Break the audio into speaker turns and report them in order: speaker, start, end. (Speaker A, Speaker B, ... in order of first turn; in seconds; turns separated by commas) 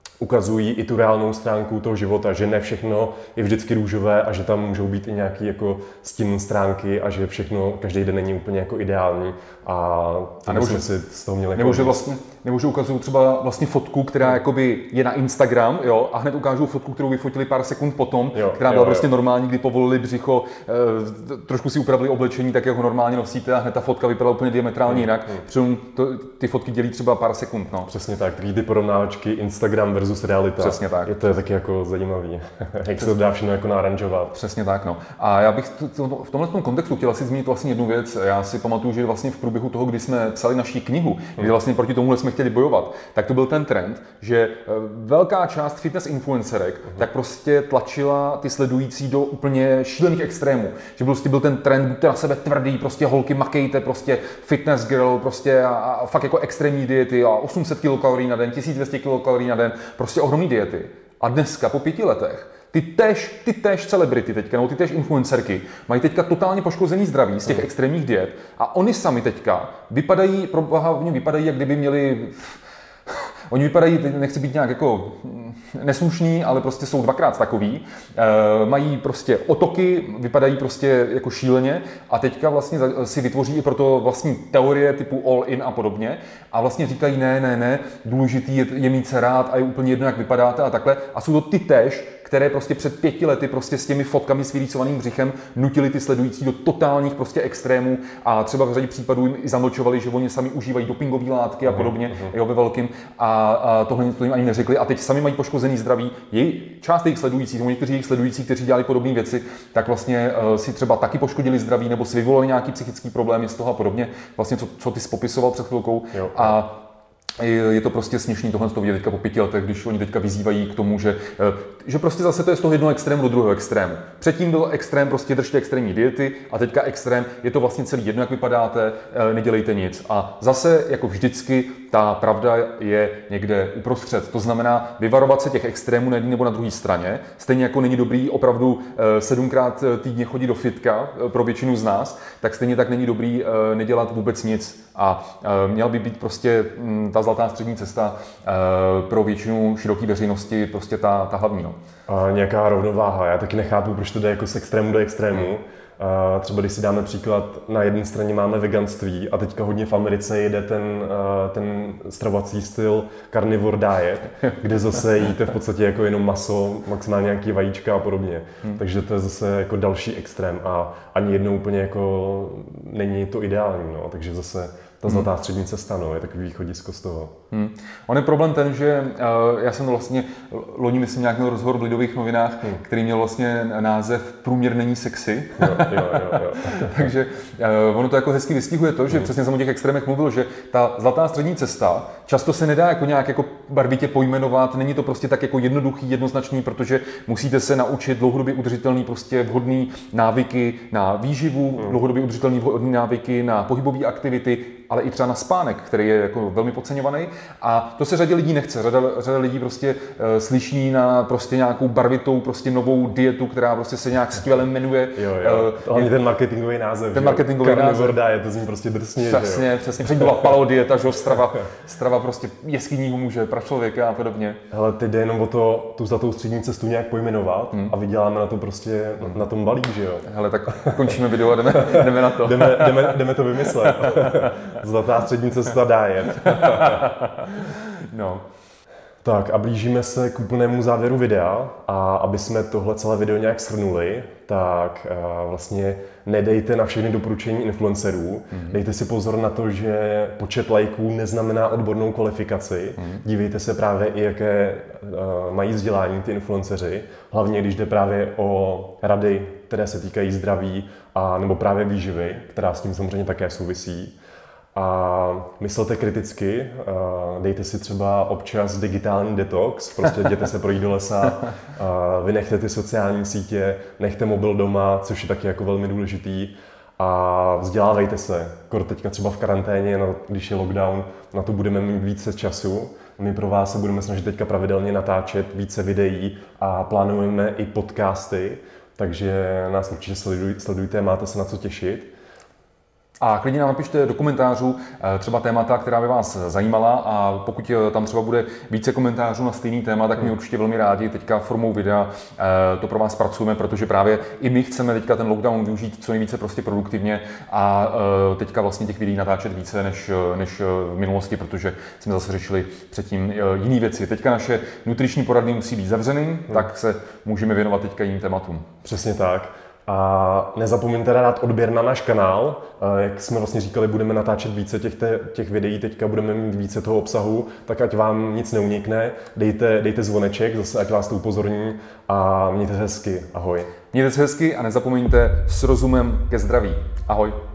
Speaker A: 0.2-12.0, Speaker B: 10.4-10.9, Speaker B: 11.6-27.9, Speaker A: 18.3-19.1, Speaker A: 24.9-25.4, Speaker A: 27.9-34.4, Speaker B: 30.6-31.1, Speaker B: 34.3-72.6, Speaker B: 73.1-116.8, Speaker A: 101.7-102.3, Speaker A: 116.1-116.6, Speaker B: 117.4-151.7, Speaker A: 152.1-177.3, Speaker B: 177.5-216.1, Speaker A: 185.6-187.1, Speaker A: 215.1-219.7, Speaker B: 217.1-218.2, Speaker B: 219.2-224.6, Speaker A: 220.2-220.5, Speaker A: 224.7-231.2, Speaker B: 230.2-234.7, Speaker A: 231.7-237.1, Speaker B: 236.3-238.4, Speaker A: 239.2-264.1, Speaker B: 248.5-248.8, Speaker B: 253.0-253.2, Speaker A: 264.7-292.1, Speaker B: 293.2-318.7, Speaker A: 318.8-333.7, Speaker B: 333.9-337.4